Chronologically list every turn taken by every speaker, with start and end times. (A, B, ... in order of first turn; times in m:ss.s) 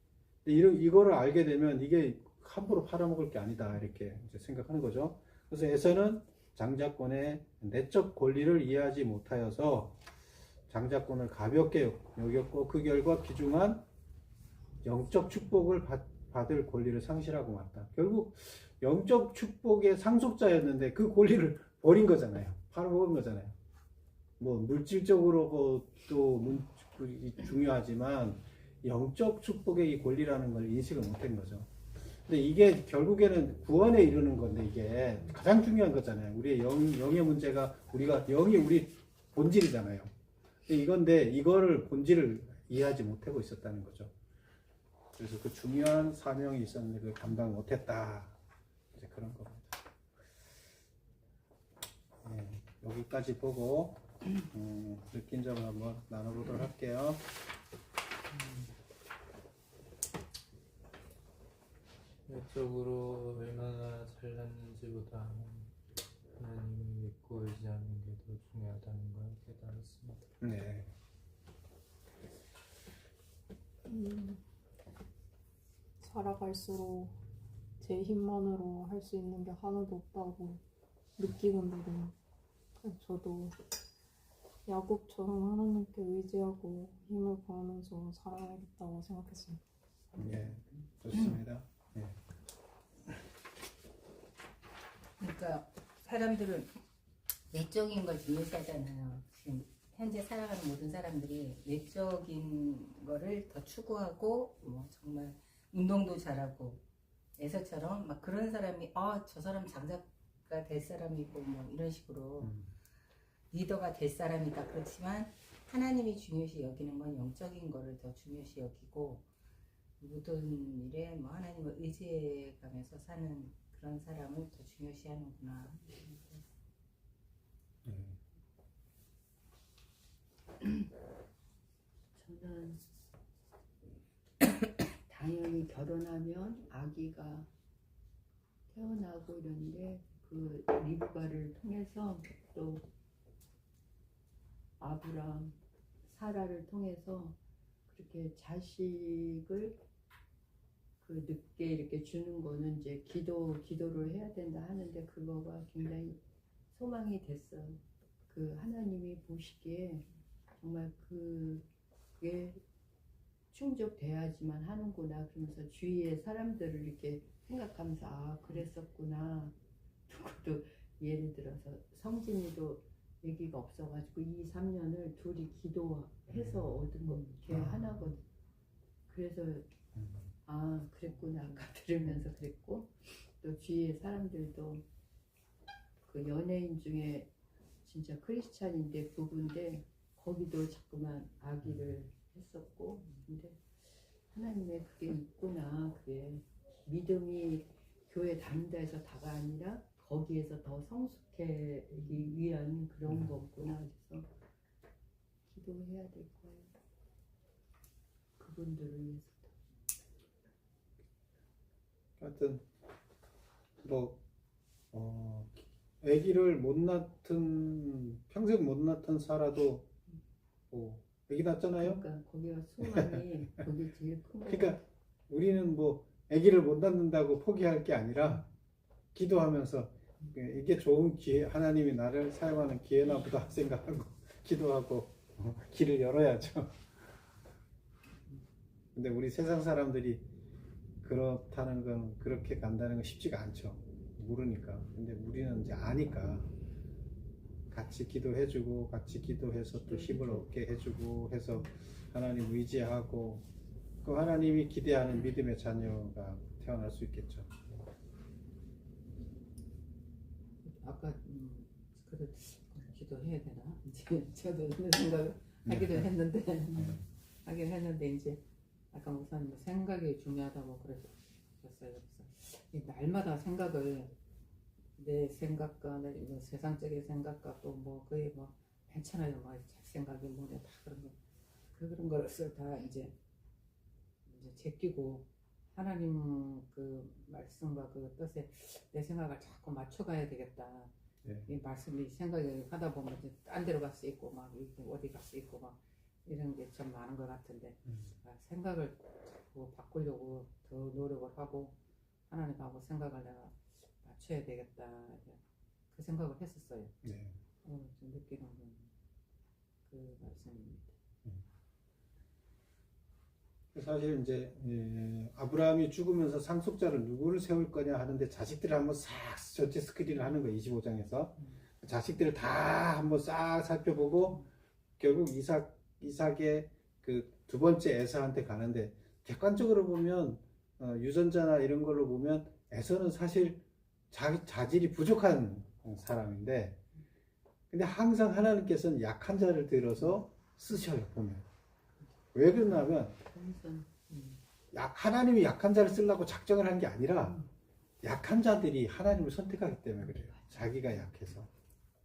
0:00.4-0:10.0 A
0:10.7-0:13.8 A
0:14.8-0:23.6 A
0:24.4-0:31.7 A
0:32.2-0:40.1 A
0:40.7-0:44.1 A
0:45.2-0:48.3 A
0:48.9-0:49.8 A
0:52.2-0:57.2 A
1:02.3-1:05.7 B
1:06.4-1:10.2 B
1:10.4-1:10.9 A
1:13.9-1:14.4 C
1:16.0-1:17.2 C
1:17.8-1:20.6 C
1:21.2-1:22.2 C
1:22.8-1:23.6 C
1:24.6-1:29.6 C
1:30.2-1:32.2 A
1:35.2-1:36.7 D
1:37.5-1:46.8 D
1:47.4-1:52.5 D
1:52.4-1:52.7 A
1:53.5-1:59.2 D
2:00.0-2:06.0 D
2:05.9-2:06.2 E
2:07.8-2:08.2 A
2:12.2-2:12.8 E
2:15.1-2:17.5 E
2:18.7-2:22.8 E
2:24.8-2:27.4 E
2:27.9-2:29.8 E
2:31.0-2:36.2 E
2:36.7-2:40.1 E
2:40.6-2:41.6 E
2:42.2-2:42.6 E
2:43.5-2:49.5 E
2:50.1-2:58.2 E
2:56.3-2:56.6 A
2:57.5-2:57.8 A
2:59.1-2:59.7 E
3:00.0-3:00.2 A
3:00.4-3:04.8 E
3:06.0-3:07.3 E
3:07.8-3:24.3 E
3:25.5-3:26.7 E
3:28.4-3:29.6 E
3:32.2-3:32.6 A
3:33.8-3:34.2 A
3:34.9-3:39.9 A
3:40.7-3:42.0 A
3:41.8-3:44.8 E
3:42.8-3:43.6 A
3:44.4-3:48.4 A
3:49.1-3:56.9 A
3:58.9-4:00.2 A
4:01.0-4:06.5 A
4:07.7-4:13.4 A
4:09.7-4:10.4 E
4:14.0-4:17.8 A
4:20.6-4:34.1 F
4:25.6-4:26.1 A
4:26.7-4:27.0 A
4:35.0-4:41.2 F
4:41.7-4:43.1 F
4:44.2-4:50.9 F
4:51.4-5:01.8 F
5:02.3-5:05.4 F
5:05.9-5:06.9 F
5:07.0-5:07.4 A
5:07.6-5:08.9 F
5:09.9-5:10.9 F
5:13.7-5:24.4 A
5:25.0-5:36.8 A
5:37.7-5:41.4 A
5:42.3-5:43.2 A
5:43.3-5:43.9 E
5:44.1-5:44.4 F
5:44.7-5:47.4 A
5:48.0-5:51.5 A